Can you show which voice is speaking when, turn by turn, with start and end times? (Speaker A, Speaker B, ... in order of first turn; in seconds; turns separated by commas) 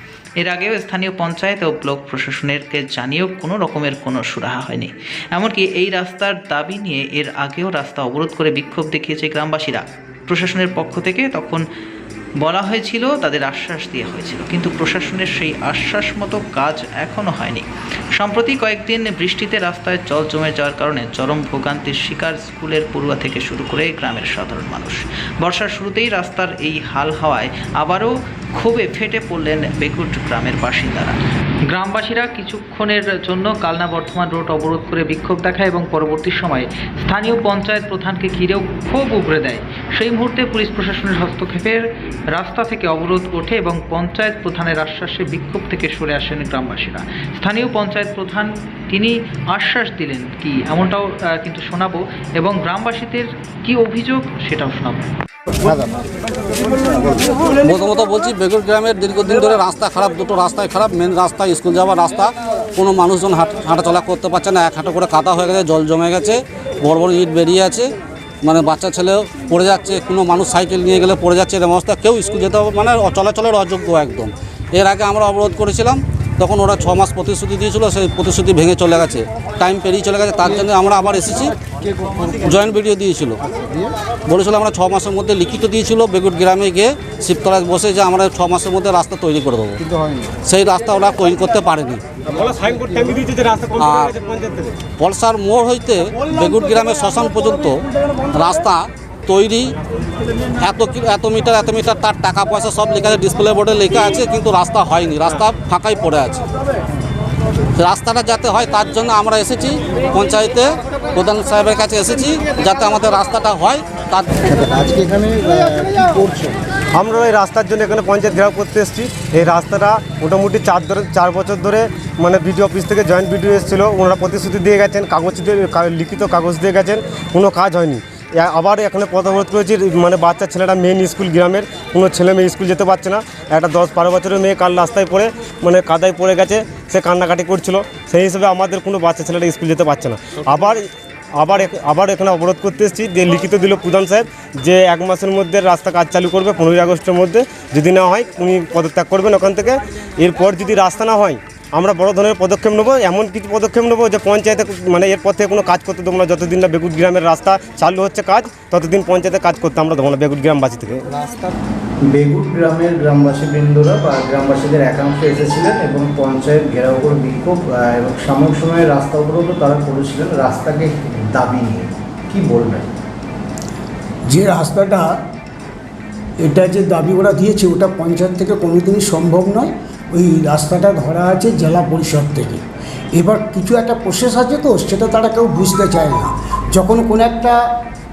Speaker A: 0.4-11.6, Speaker A: 12.4-31.2, Speaker A: 31.7-55.1, Speaker B: 57.6-67.9, Speaker B: 68.4-81.5, Speaker B: 82.2-83.4, Speaker B: 84.3-89.8, Speaker B: 90.4-92.0, Speaker C: 92.3-94.8, Speaker B: 93.8-94.1, Speaker B: 95.0-97.8, Speaker B: 98.3-99.7, Speaker B: 100.6-106.4, Speaker B: 107.8-114.5, Speaker D: 114.6-116.6, Speaker C: 117.0-161.0, Speaker D: 162.0-172.9, Speaker E: 174.3-175.2, Speaker E: 176.4-182.6, Speaker E: 183.2-187.6